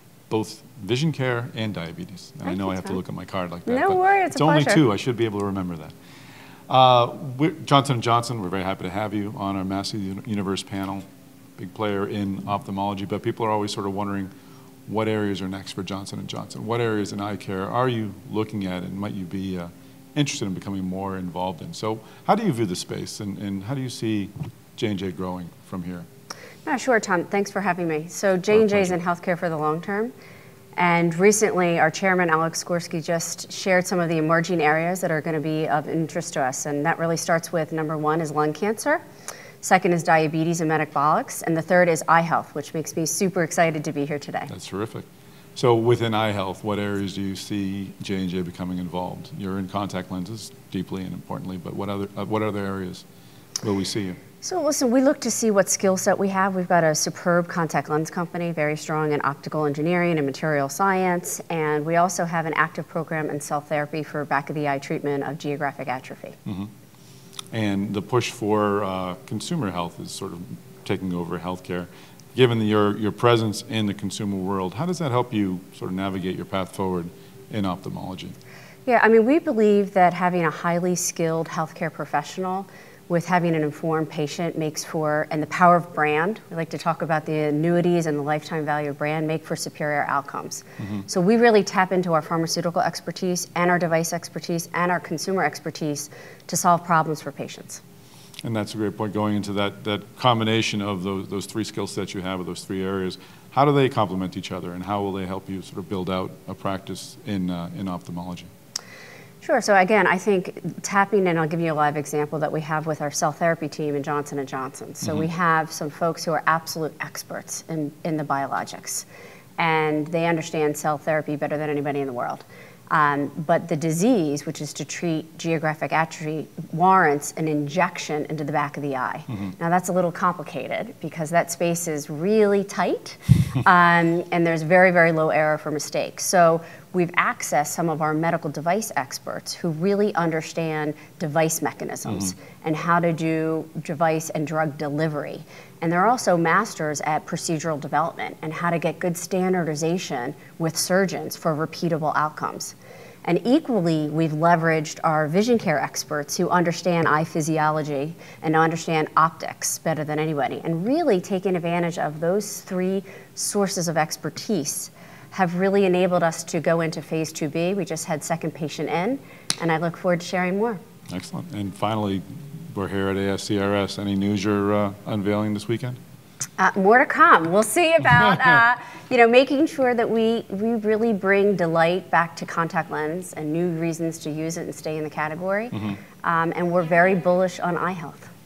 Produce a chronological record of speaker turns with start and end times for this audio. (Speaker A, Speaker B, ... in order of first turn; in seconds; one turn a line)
Speaker A: 0.3-5.9
Speaker B: 2.5-3.0
Speaker B: 3.7-4.8
Speaker A: 6.7-11.1
Speaker A: 11.6-14.3
Speaker A: 14.9-26.1
Speaker B: 26.6-30.1
Speaker A: 28.5-29.0
Speaker B: 30.8-39.0
Speaker B: 39.6-44.5
Speaker A: 44.5-53.0
Speaker A: 53.6-54.2
Speaker B: 54.4-66.4
Speaker A: 66.5-66.7
Speaker A: 67.5-78.4
Speaker B: 78.9-97.8
Speaker A: 90.8-91.1
Speaker A: 98.4-108.5
Speaker B: 109.4-119.0
Speaker B: 119.6-170.8
Speaker A: 171.1-176.0
Speaker B: 176.6-188.3
Speaker A: 185.7-186.0